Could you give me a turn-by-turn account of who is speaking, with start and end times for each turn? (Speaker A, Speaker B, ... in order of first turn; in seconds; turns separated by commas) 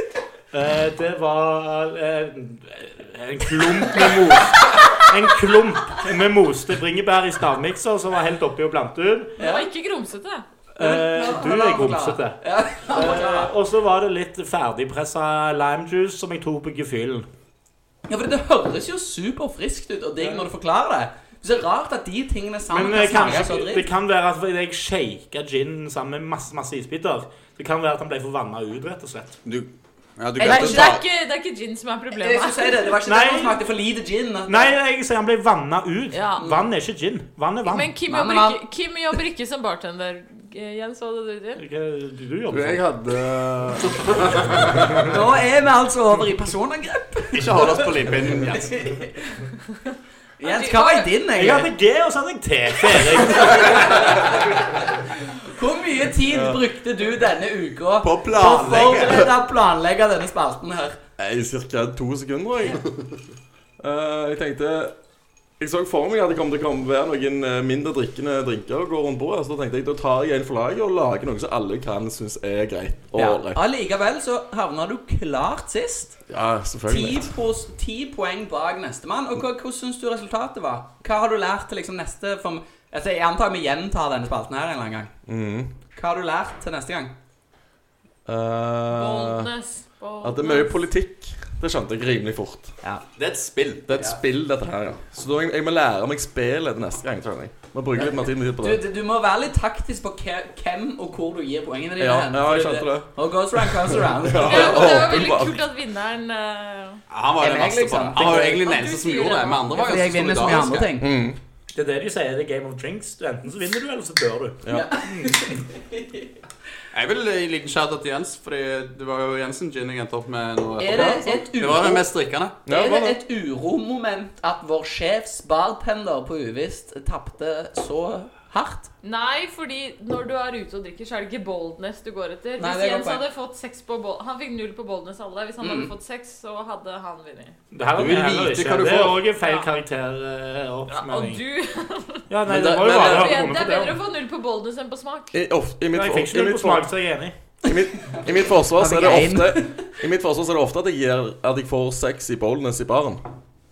Speaker A: 0.5-9.3, Speaker B: 9.4-9.7, Speaker C: 9.4-10.4, Speaker A: 10.8-17.3, Speaker B: 10.8-13.5, Speaker B: 18.1-23.9, Speaker A: 20.2-20.5, Speaker A: 22.7-29.4, Speaker D: 29.4-31.0, Speaker B: 30.4-31.0, Speaker C: 30.4-33.0, Speaker B: 32.2-34.7, Speaker A: 33.0-33.6, Speaker A: 34.5-37.9, Speaker C: 36.1-36.5, Speaker C: 37.6-41.6, Speaker B: 38.1-38.6, Speaker A: 41.6-42.9, Speaker E: 42.5-44.9, Speaker B: 44.9-47.9, Speaker D: 47.3-48.9, Speaker B: 48.5-49.4, Speaker B: 50.4-51.7, Speaker C: 50.4-51.1, Speaker A: 51.4-54.2, Speaker B: 53.2-61.0, Speaker E: 56.3-56.6, Speaker D: 58.0-59.3, Speaker E: 61.2-62.9, Speaker E: 63.8-65.0, Speaker E: 65.6-73.6, Speaker B: 73.1-76.2, Speaker E: 76.3-77.3, Speaker B: 76.9-85.1, Speaker E: 85.3-85.7, Speaker B: 86.0-87.1, Speaker E: 88.3-89.5, Speaker C: 88.9-90.8, Speaker E: 90.2-92.8, Speaker D: 93.2-94.0, Speaker E: 93.9-98.8, Speaker B: 98.0-105.2, Speaker E: 102.0-105.6, Speaker C: 104.3-107.0, Speaker D: 107.1-110.9, Speaker B: 107.4-108.7, Speaker C: 108.3-109.7, Speaker B: 109.7-111.1, Speaker E: 111.0-111.4, Speaker A: 111.7-115.5, Speaker B: 114.7-116.3, Speaker D: 116.9-122.6, Speaker B: 120.8-122.1, Speaker E: 120.9-121.4, Speaker E: 122.6-123.2, Speaker B: 122.7-128.9, Speaker C: 129.0-137.6, Speaker B: 132.6-133.2, Speaker B: 135.6-135.9, Speaker A: 137.7-141.4, Speaker D: 137.9-139.3, Speaker C: 139.4-139.7, Speaker C: 140.9-142.3, Speaker A: 142.3-144.0, Speaker E: 142.5-142.9, Speaker B: 142.5-143.3, Speaker C: 142.8-145.3, Speaker E: 145.3-146.9, Speaker A: 145.9-147.3, Speaker E: 147.6-153.2, Speaker B: 148.7-149.9